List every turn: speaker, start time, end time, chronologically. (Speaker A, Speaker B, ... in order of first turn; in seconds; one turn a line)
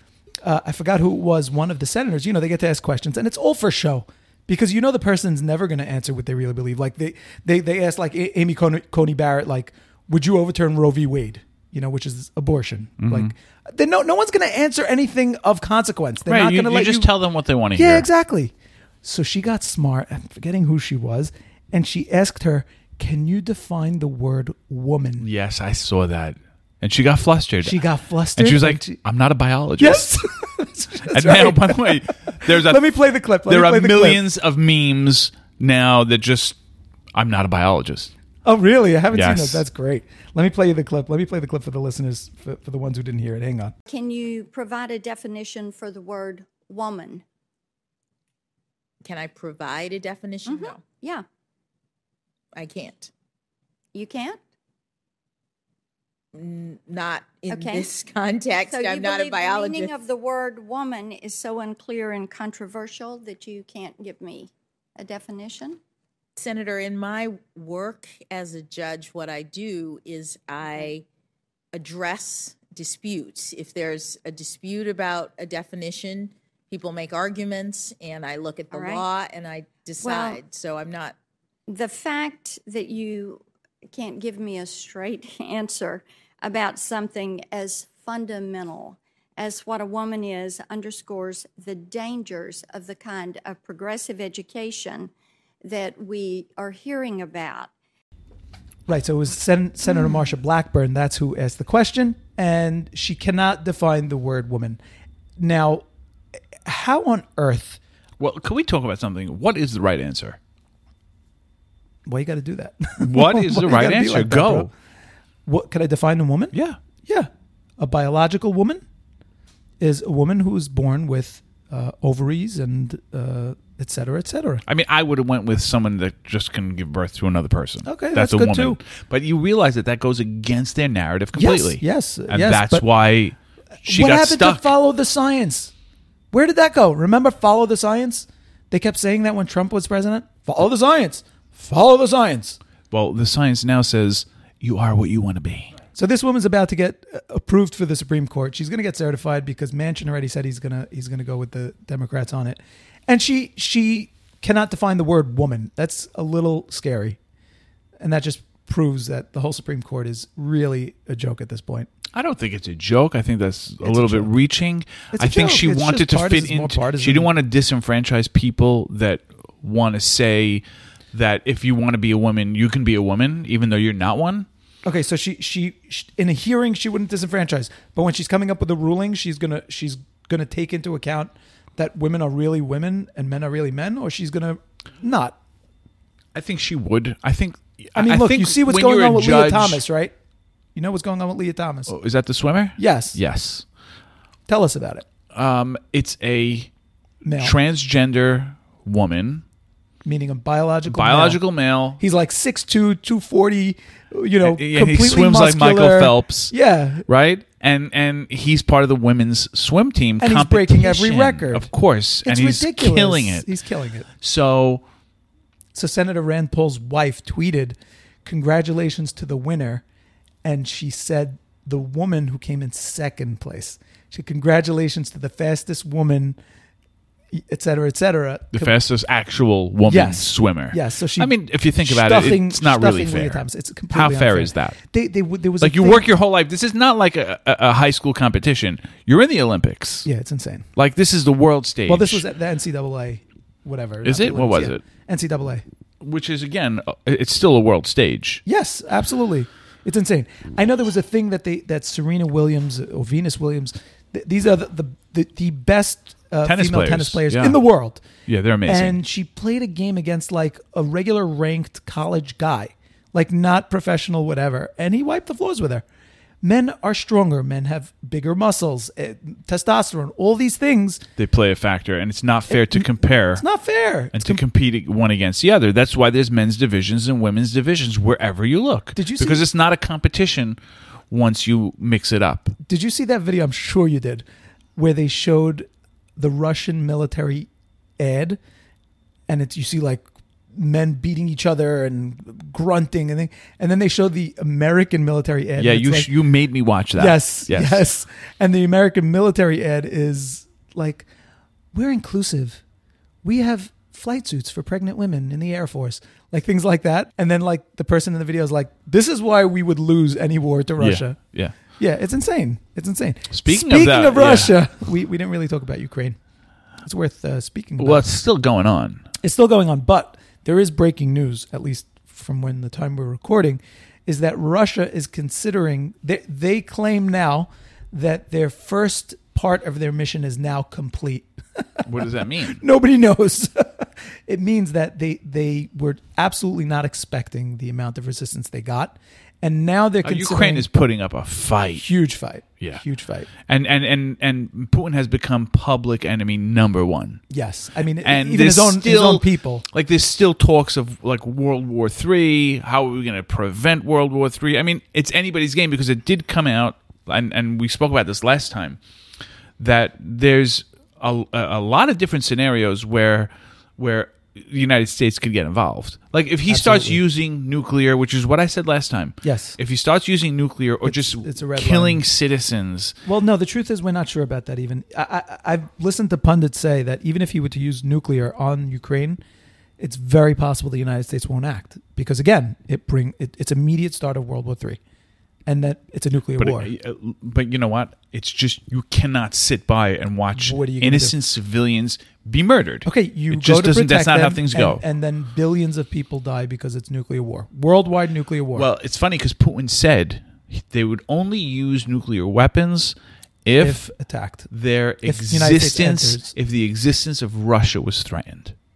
Speaker A: 0.4-17.1
Speaker B: 13.0-13.3
Speaker B: 16.3-18.1
Speaker A: 17.8-25.3
Speaker B: 25.2-27.8
Speaker A: 27.6-29.0
Speaker B: 28.4-30.1
Speaker A: 29.8-34.2
Speaker B: 31.1-33.0
Speaker B: 33.5-36.6
Speaker B: 37.1-38.1
Speaker A: 38.5-43.7
Speaker B: 39.1-39.6
Speaker C: 43.9-47.2
Speaker D: 49.0-50.8
Speaker C: 50.5-51.2
Speaker D: 52.5-53.1
Speaker C: 53.9-54.4
Speaker D: 56.3-60.0
Speaker C: 57.5-57.9
Speaker C: 58.6-65.8
Speaker D: 66.4-71.0
Speaker D: 71.7-81.2
Speaker C: 78.7-79.1
Speaker C: 80.0-80.4
Speaker C: 81.7-95.1
Speaker C: 95.7-97.7
Speaker A: 98.9-104.8
Speaker A: 105.4-105.8
Speaker A: 106.6-107.8
Speaker B: 108.2-110.4
Speaker A: 112.1-114.7
Speaker B: 113.0-114.7
Speaker A: 115.5-118.8
Speaker B: 116.5-116.8
Speaker A: 119.8-124.6
Speaker B: 124.7-134.7
Speaker A: 127.8-128.8
Speaker A: 131.3-132.9
Speaker A: 133.8-135.7
Speaker A: 136.3-142.6
Speaker B: 142.9-145.7
Speaker A: 145.9-157.2
Speaker A: 158.0-161.9
Speaker B: 162.1-174.5
Speaker A: 163.8-164.3
Speaker A: 165.1-167.3
Speaker A: 174.8-185.4
Speaker B: 186.3-189.8
Speaker A: 187.9-190.2
Speaker A: 190.8-191.9
Speaker B: 191.9-193.7
Speaker A: 192.8-193.2
Speaker A: 194.5-195.1
Speaker B: 195.3-196.7
Speaker A: 197.2-197.6
Speaker B: 197.4-199.4
Speaker A: 200.1-201.4
Speaker B: 200.9-202.0
Speaker A: 202.0-207.1
Speaker B: 204.4-206.5
Speaker B: 207.1-213.5
Speaker A: 210.2-211.7
Speaker A: 212.2-214.1
Speaker B: 214.2-214.8
Speaker A: 215.7-219.8
Speaker A: 220.4-226.4
Speaker A: 227.3-228.8
Speaker B: 228.5-234.8
Speaker A: 229.9-236.1
Speaker B: 235.6-240.1
Speaker A: 240.1-240.7
Speaker B: 240.8-242.2
Speaker A: 241.9-245.6
Speaker B: 244.0-244.8
Speaker B: 246.0-248.4
Speaker A: 248.5-258.0
Speaker B: 256.4-257.6
Speaker B: 258.3-259.0
Speaker A: 258.7-265.9
Speaker A: 266.4-271.1
Speaker B: 271.2-273.4
Speaker A: 272.5-274.4
Speaker B: 274.1-280.6
Speaker A: 278.9-279.4
Speaker B: 281.1-282.6
Speaker A: 282.6-284.2
Speaker A: 284.8-288.4
Speaker A: 289.3-296.1
Speaker B: 295.6-297.8
Speaker A: 297.0-301.1
Speaker A: 301.7-302.6
Speaker A: 303.2-316.2
Speaker B: 310.8-311.6
Speaker B: 313.3-314.6
Speaker A: 316.8-318.2
Speaker B: 317.8-319.1
Speaker A: 319.2-331.6
Speaker B: 331.8-332.6
Speaker A: 332.4-340.7
Speaker B: 340.0-341.9
Speaker A: 341.8-343.3
Speaker B: 343.4-347.2
Speaker A: 347.3-349.6
Speaker B: 348.0-358.8
Speaker B: 359.6-373.0
Speaker A: 366.5-367.0
Speaker A: 369.2-369.6
Speaker A: 370.9-372.1
Speaker A: 373.1-379.2
Speaker A: 379.8-384.8
Speaker A: 385.5-386.7
Speaker B: 386.4-394.8
Speaker A: 390.4-391.2
Speaker A: 392.9-398.7
Speaker B: 398.6-403.9
Speaker A: 403.6-404.5
Speaker B: 404.5-408.6
Speaker A: 405.1-406.3